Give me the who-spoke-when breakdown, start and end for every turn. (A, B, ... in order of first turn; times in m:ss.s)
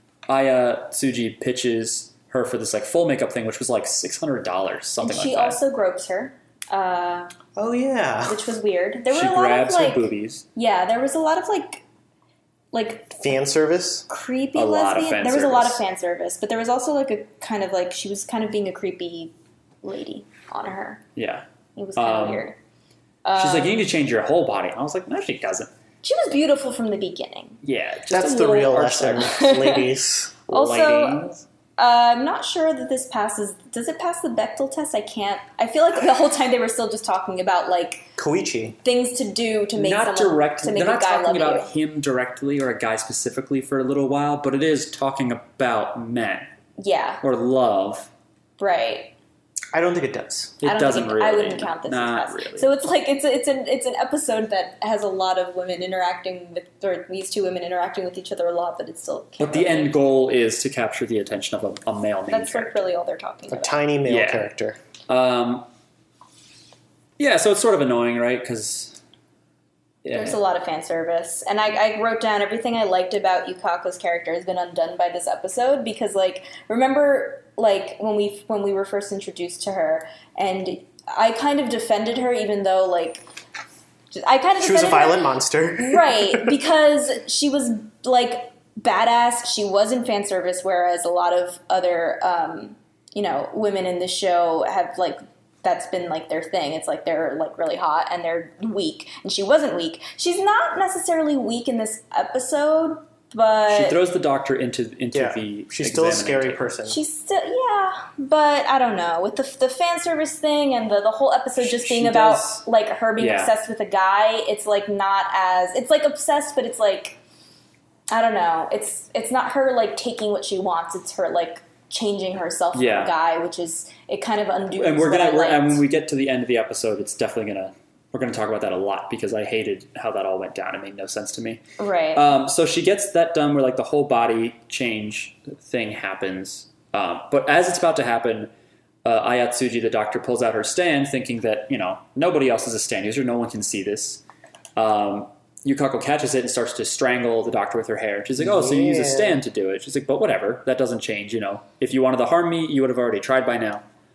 0:00.3-0:05.6 A
0:05.0-0:07.3 B
0:07.6-0:08.5 C
0:08.2-0:11.8 B
0:09.1-0:10.4 A
0:12.7-0:13.2 B
0:13.2-0:14.0 C
0:14.1-0:21.0 B
0:14.5-0:15.8 A
0:21.2-0:21.4 A
0:21.8-0:22.6 B
0:22.0-0:22.5 A
0:23.2-0:23.8 B
0:23.4-0:25.7 A
0:26.0-0:27.6 B
0:27.6-0:29.4 A
0:28.1-0:30.4 C
0:29.3-0:29.9 B
0:30.5-0:31.4 A
0:30.5-0:31.2 B
0:31.8-0:38.1 B
0:38.2-0:38.8 C
0:38.8-0:41.7 B
0:39.8-0:46.5 A
0:46.8-0:47.2 B
0:47.2-0:48.1 A
0:48.6-0:49.1 B
0:49.7-0:50.6 C
0:50.6-0:52.7 A
0:50.6-1:00.0 B
0:59.4-1:02.8 A
1:02.3-1:03.8 B
1:03.5-1:04.8 C
1:04.0-1:04.5 A
1:05.1-1:05.7 A
1:07.2-1:09.0 A
1:10.0-1:10.4 A
1:10.1-1:23.2 B
1:24.1-1:44.0 B
1:24.6-1:26.5 C
1:43.7-1:46.8 A
1:45.1-1:47.0 C
1:46.9-1:57.2 B
1:51.6-1:52.6 C
1:53.2-1:53.5 A
1:58.1-2:05.8 B
2:02.7-2:03.1 A
2:04.7-2:11.6 A
2:11.8-2:12.3 B
2:12.1-2:18.5 A
2:19.0-2:24.2 A
2:24.8-2:33.8 A
2:28.4-2:29.4 C